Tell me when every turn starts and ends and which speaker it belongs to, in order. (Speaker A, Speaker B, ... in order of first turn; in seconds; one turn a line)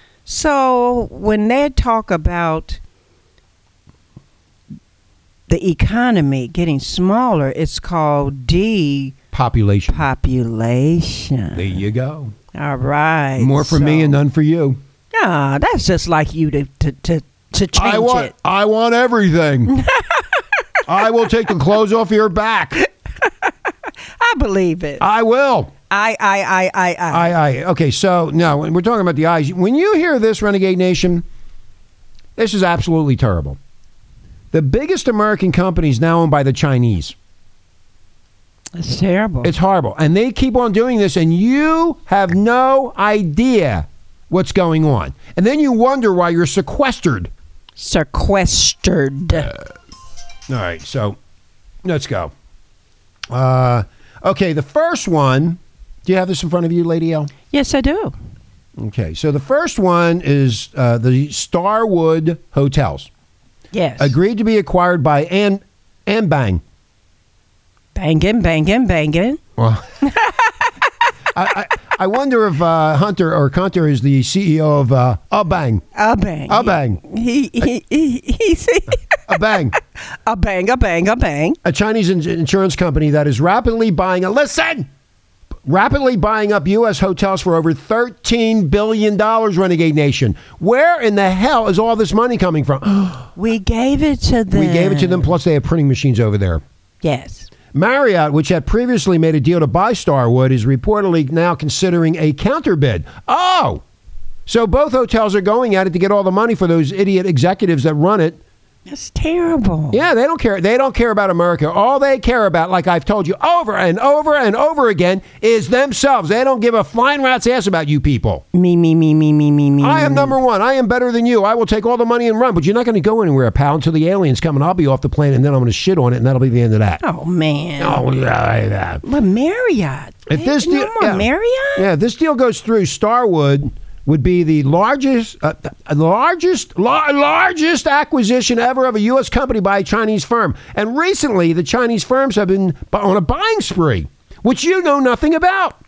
Speaker A: 0.2-2.8
Speaker A: 5.5-9.2
Speaker B: 9.3-10.1
Speaker A: 9.9-11.8
Speaker B: 11.5-12.3
Speaker A: 12.5-14.2
Speaker B: 13.4-14.8
Speaker A: 15.1-18.3
Speaker B: 17.8-19.8
Speaker A: 19.7-20.4
Speaker B: 20.9-22.8
Speaker A: 23.2-25.1
Speaker B: 25.0-25.7
Speaker A: 25.9-27.3
Speaker B: 27.1-31.2
Speaker B: 32.4-33.6
Speaker B: 34.5-37.1
Speaker A: 38.8-39.5
Speaker B: 39.4-47.3
Speaker A: 47.8-49.5
Speaker B: 50.5-51.2
Speaker B: 51.8-52.3
Speaker B: 53.3-57.3
Speaker A: 57.5-58.1
Speaker B: 58.8-63.1
Speaker A: 63.7-64.1
Speaker B: 64.0-66.6
Speaker A: 67.9-69.4
Speaker B: 69.6-69.9
Speaker A: 70.0-70.7
Speaker B: 71.3-75.8
Speaker A: 75.9-79.2
Speaker B: 76.5-77.0
Speaker B: 79.3-79.8
Speaker A: 80.1-81.6
Speaker B: 81.6-84.9
Speaker B: 85.6-93.3
Speaker A: 93.4-95.3
Speaker B: 94.5-96.6
Speaker A: 97.0-97.5
Speaker B: 97.7-103.8
Speaker B: 104.5-108.4
Speaker A: 108.9-110.0
Speaker B: 109.9-118.4
Speaker A: 118.5-120.4
Speaker B: 119.8-127.0
Speaker A: 127.0-128.0
Speaker B: 127.8-129.0
Speaker A: 129.0-131.9
Speaker B: 130.3-145.8